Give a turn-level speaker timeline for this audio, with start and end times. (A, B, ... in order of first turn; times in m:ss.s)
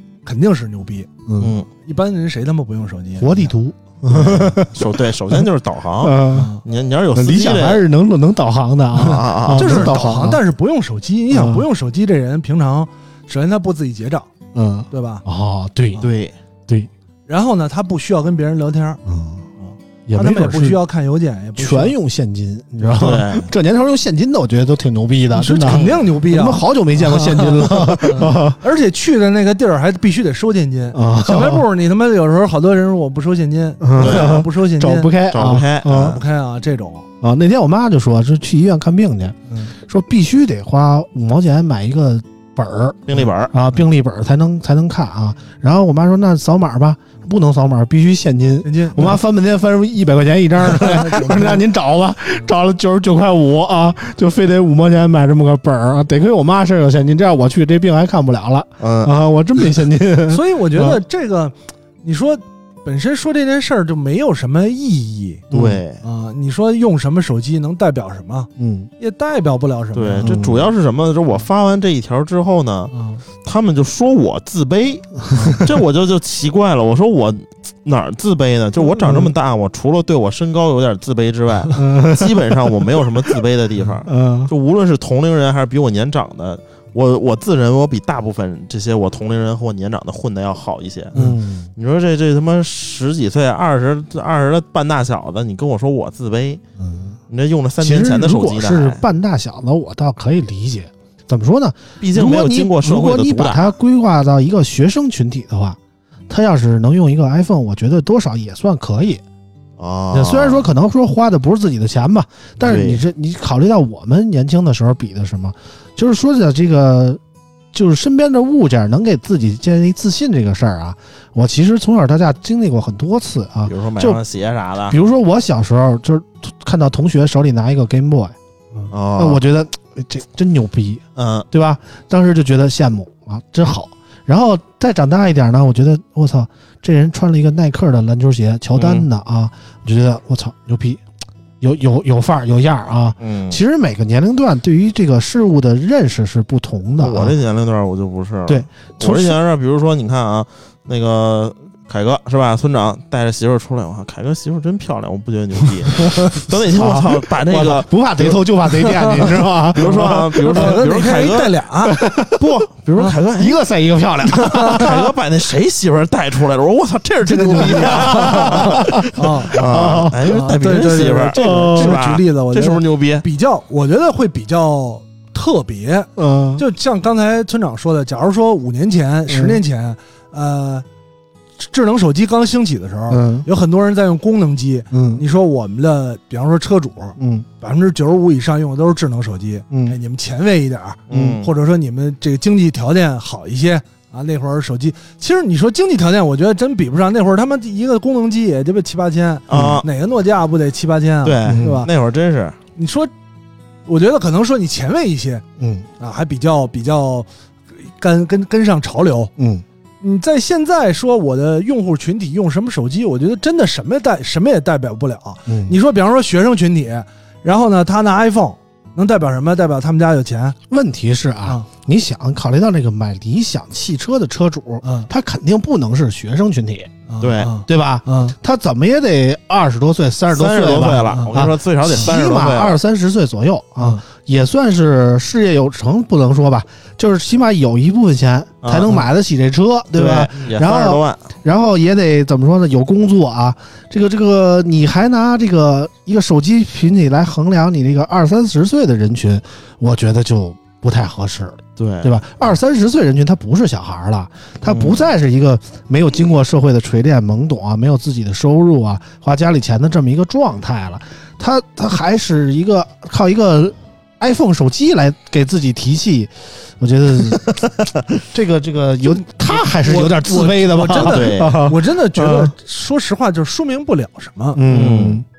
0:00.2-0:01.1 A
0:01.3-0:01.5 B
0:01.4-0:01.7 C
0:01.8-0:03.5 A
0:03.2-0:05.4 B
0:04.1-0:07.9 C
0:06.0-0:06.5 B
0:06.3-0:06.6 A
0:07.1-0:10.4 B
0:09.0-0:10.0 C
0:09.5-0:14.3 A
0:11.3-0:11.6 B
0:14.5-0:16.0 B
0:14.9-0:15.2 A
0:16.0-0:16.3 C
0:17.3-0:19.0 A
0:19.0-0:19.4 B
0:19.7-0:22.0 A
0:20.1-0:20.8 B
0:21.6-0:28.6 B
0:22.9-0:23.5 C
0:25.3-0:35.1 A
0:25.6-0:26.0 C
0:30.9-0:31.6 B
0:33.8-0:36.2 B
0:34.0-0:34.4 C
0:35.3-0:36.2 C
0:35.9-0:37.0 A
0:37.2-1:01.0 B
0:43.1-0:43.6 C
0:48.6-0:49.2 A
0:50.6-0:51.6 A
0:58.8-0:59.2 C
1:00.3-1:05.4 A
1:05.5-1:05.8 B
1:05.5-1:06.0 C
1:06.0-1:10.5 A
1:08.6-1:08.9 B
1:09.9-1:12.9 C
1:10.2-1:10.7 B
1:12.9-1:13.2 A
1:13.4-1:36.6 C
1:15.3-1:15.7 B
1:19.0-1:19.3 B
1:21.8-1:22.7 B
1:24.1-1:24.5 B
1:31.1-1:31.7 B
1:36.8-1:37.2 B
1:37.3-1:39.0 C
1:37.8-1:45.8 B
1:42.0-1:43.7 C
1:46.3-1:49.2 B
1:49.8-1:50.7 C
1:50.1-1:57.2 B
1:52.6-1:53.0 C
1:57.7-2:04.2 B
2:03.6-2:05.0 C
2:04.9-2:21.0 B
2:08.9-2:09.4 C
2:11.2-2:11.4 C
2:18.8-2:19.0 C
2:21.6-2:27.4 B
2:23.2-2:23.6 C
2:27.0-2:41.6 C
2:28.5-2:29.4 B
2:35.9-2:40.8 B
2:38.8-2:42.0 A
2:41.8-2:42.6 B
2:42.4-2:43.6 C
2:43.3-2:45.0 B
2:44.3-2:45.0 A
2:44.5-2:53.2 C
2:47.3-3:00.8 A
2:47.4-2:50.3 B
2:51.3-2:52.0 B
2:56.2-2:56.6 B
2:59.3-2:59.6 B
3:01.6-3:21.9 A
3:03.1-3:03.5 B
3:04.9-3:05.2 B
3:07.2-3:07.4 B
3:11.1-3:11.5 C
3:11.1-3:11.4 B
3:19.5-3:19.9 C
3:19.5-3:19.8 B
3:21.2-3:22.6 C
3:21.4-3:21.8 B
3:22.8-3:23.1 A
3:23.9-3:25.4 A
3:25.6-3:25.9 B
3:26.0-3:29.3 A
3:29.4-3:29.6 B
3:30.0-3:40.6 A
3:35.5-3:35.7 B
3:40.7-3:46.9 B
3:44.8-3:45.1 A
3:47.1-3:48.3 A
3:47.2-3:47.5 C
3:47.5-4:32.5 B
3:50.3-3:52.8 C
3:51.1-3:51.4 A
3:58.6-3:59.1 C
3:59.9-4:01.2 C
4:11.8-4:12.2 C
4:14.6-4:15.0 C
4:29.5-4:34.6 A
4:30.9-4:31.6 C
4:34.5-4:35.2 B
4:34.7-4:35.2 C